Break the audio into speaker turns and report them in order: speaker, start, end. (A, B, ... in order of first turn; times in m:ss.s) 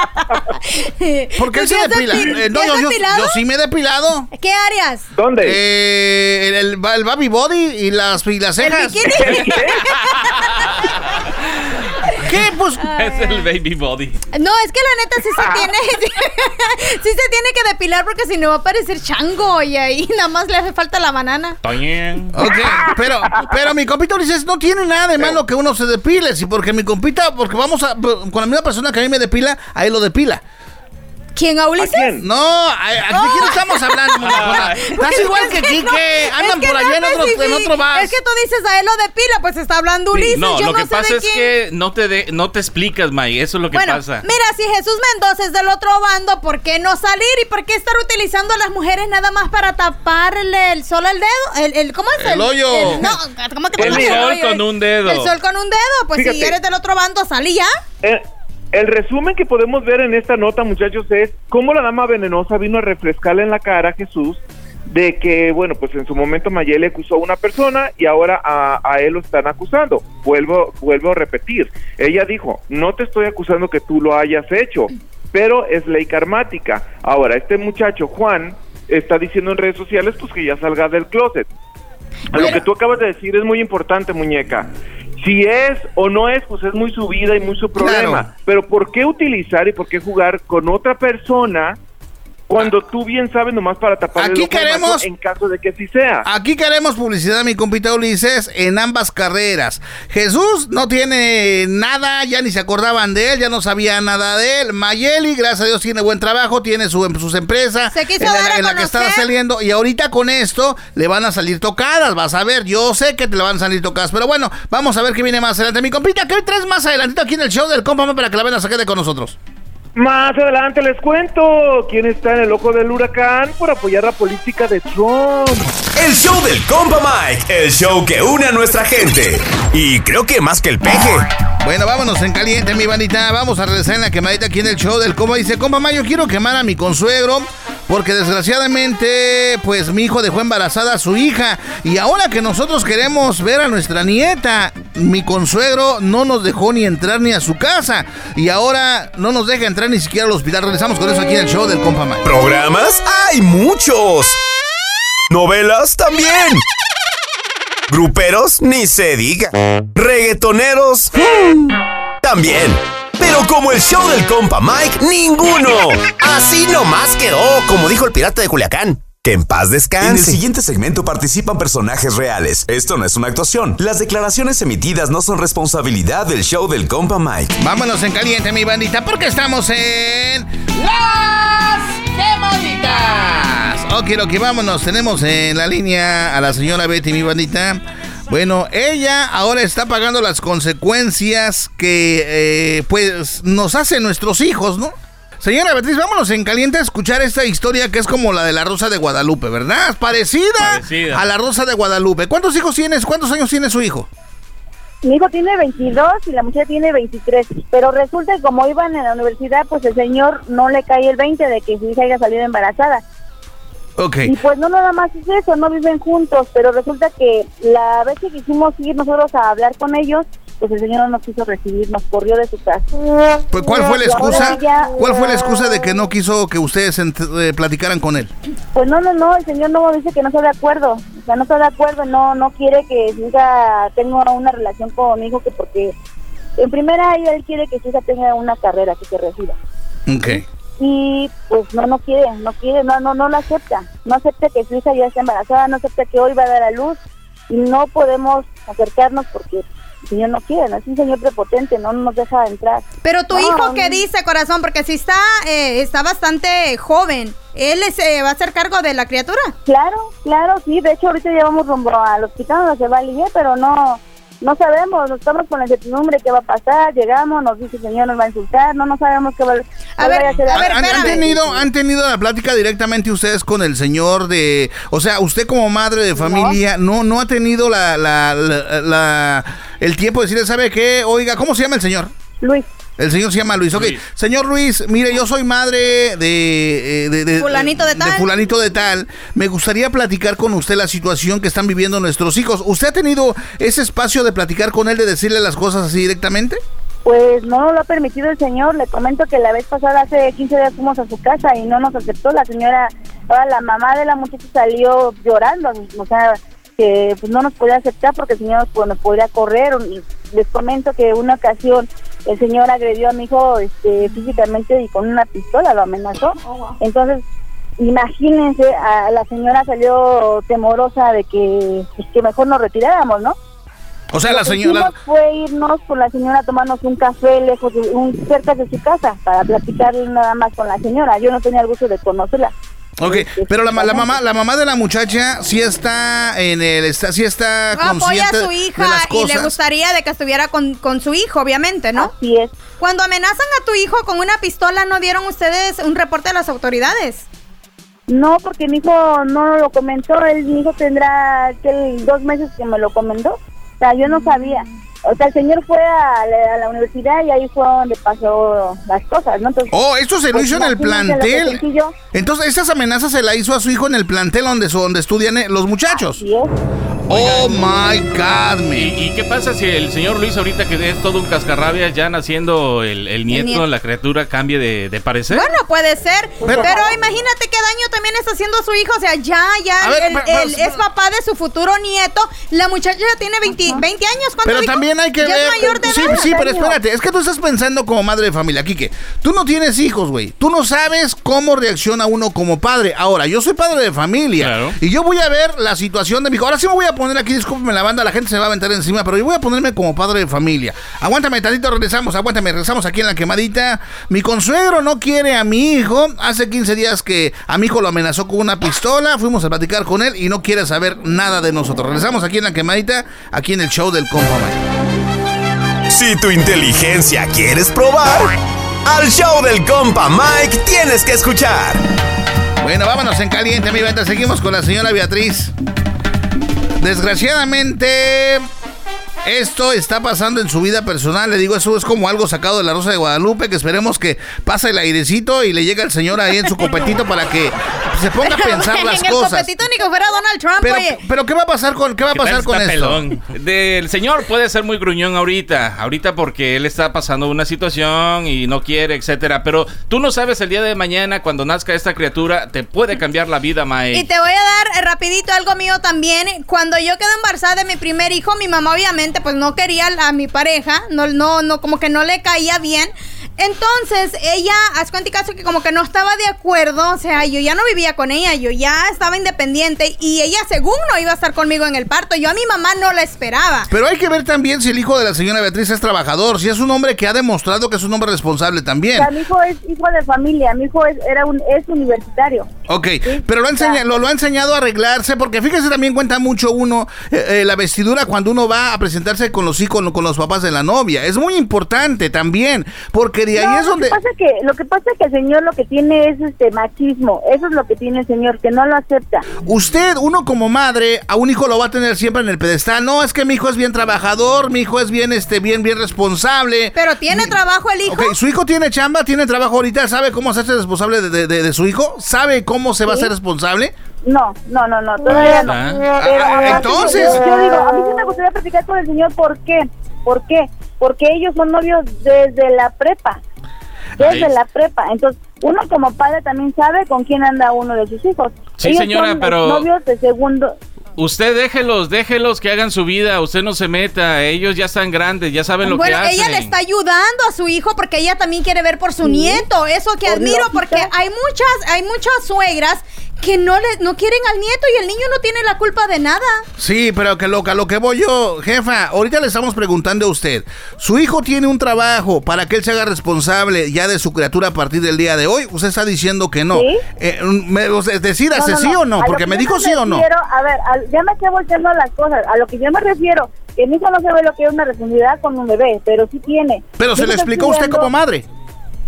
0:00.3-0:03.4 A
0:01.4-0:04.3 B
0:04.4-0:05.1 A
0:05.1-0:05.6 C
0:05.4-0:09.4 B
0:08.6-0:10.7 A
0:09.4-0:09.8 C
0:12.2-0:12.9 B
0:12.9-0:14.2 D
0:14.3-0:21.6 A
0:21.6-0:22.4 D
0:22.3-0:30.4 B
0:31.3-0:32.1 A
0:31.8-0:32.2 C
0:32.2-0:38.1 B
0:33.1-0:41.5 A
0:34.2-0:34.8 D
0:40.1-0:44.2 D
0:43.7-0:57.7 A
0:52.2-0:53.1 B
0:52.8-0:53.1 D
0:53.8-0:54.2 C
0:53.8-0:55.3 D
0:56.2-0:56.6 C
0:58.0-1:21.5 C
1:22.3-1:24.7 C
1:22.3-1:22.6 B
1:25.2-1:31.8 C
1:27.8-1:28.3 B
1:32.5-1:36.3 C
1:34.2-1:35.1 B
1:36.2-1:59.4 B
1:47.9-1:49.3 A
1:59.9-2:05.7 C
2:06.0-2:11.3 E
2:11.6-2:32.2 B
2:32.2-2:34.4 E
2:35.3-2:36.6 E
2:37.9-2:50.4 E
2:50.0-2:57.5 F
2:57.6-3:24.1 B
3:20.6-3:21.2 D
3:25.0-3:33.0 G
3:34.0-3:34.3 B
3:34.3-3:42.8 G
3:43.5-3:48.3 B
3:43.6-3:45.1 G
3:48.7-3:55.9 G
3:56.6-3:59.6 G
4:00.1-4:00.4 B
4:00.2-4:14.0 G
4:13.0-4:19.5 A
4:19.7-4:31.7 G
4:30.0-4:31.2 A
4:30.5-4:42.1 B
4:36.2-4:36.6 G
4:42.4-4:42.7 G
4:43.0-4:56.6 B
4:43.7-4:44.0 D
4:47.4-4:48.3 A
4:57.0-5:17.2 G
5:17.8-5:23.4 G
5:24.1-5:24.9 B
5:24.3-5:34.2 G
5:33.0-5:39.6 B
5:37.7-5:42.1 A
5:42.0-5:42.5 G
5:42.8-5:47.3 A
5:48.1-5:59.7 G
5:59.7-6:06.2 B
6:00.3-6:01.9 G
6:05.9-6:06.5 G
6:07.1-6:08.9 B
6:07.1-6:07.6 D
6:08.8-6:15.5 D
6:13.3-6:13.6 A
6:15.3-6:26.5 A
6:16.4-6:16.8 B
6:16.4-6:16.9 G
6:19.8-6:20.8 B
6:23.5-6:23.8 G
6:24.4-6:54.6 B
6:25.6-6:26.8 G
6:34.4-6:34.8 D
6:55.9-6:58.3 E
6:58.8-7:01.8 E
7:02.6-7:05.5 B
7:06.8-7:08.4 B
7:09.2-7:19.5 B
7:18.2-7:21.0 A
7:20.6-7:23.0 B
7:22.1-7:34.1 D
7:33.9-7:53.7 A
7:53.7-7:59.1 B
7:59.0-8:02.5 G
8:02.7-8:14.0 B
8:03.0-8:03.8 G
8:13.3-8:19.3 G
8:19.4-8:33.7 B
8:26.8-8:28.2 A
8:34.0-8:43.2 G
8:35.1-8:35.8 D
8:36.0-8:37.5 B
8:44.0-8:50.6 G
8:44.0-8:44.3 D
8:48.6-8:49.7 D
8:51.0-8:56.5 D
8:55.6-9:06.4 A
8:59.0-8:59.4 G
9:00.0-9:00.9 G
9:06.6-9:20.0 B
9:16.5-9:16.8 G
9:18.3-9:27.9 G
9:26.8-9:28.3 B